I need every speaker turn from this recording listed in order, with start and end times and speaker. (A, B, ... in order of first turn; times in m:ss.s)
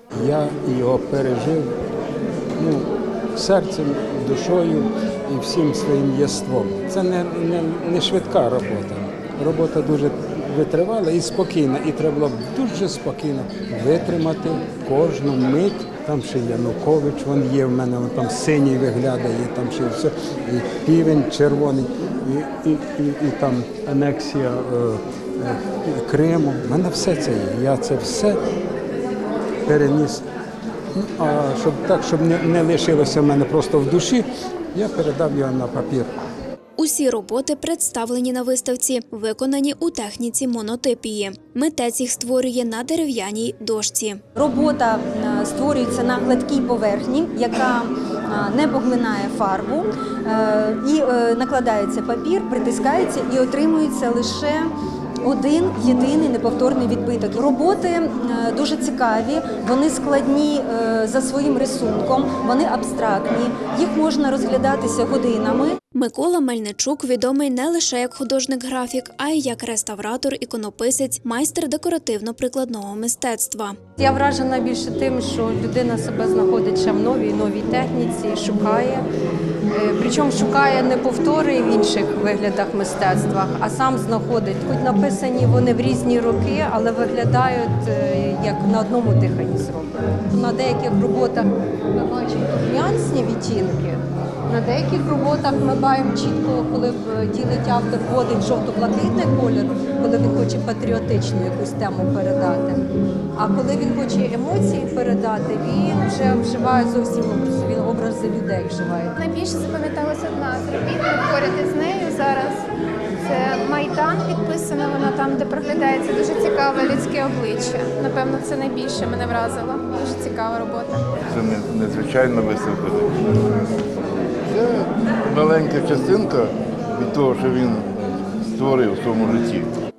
0:00.2-0:01.7 A
0:02.6-0:28.4 A
0:29.6-0:30.2 A
0:31.0-0:36.2 A
0:36.8-0:44.2 B
0:44.4-0:54.7 C
0:55.2-1:05.8 C
1:05.9-1:13.8 B
1:14.0-1:19.0 D
1:19.7-1:49.1 D
1:49.2-1:52.6 E
1:53.2-2:01.1 E
2:01.2-2:03.4 F
2:04.5-2:09.7 F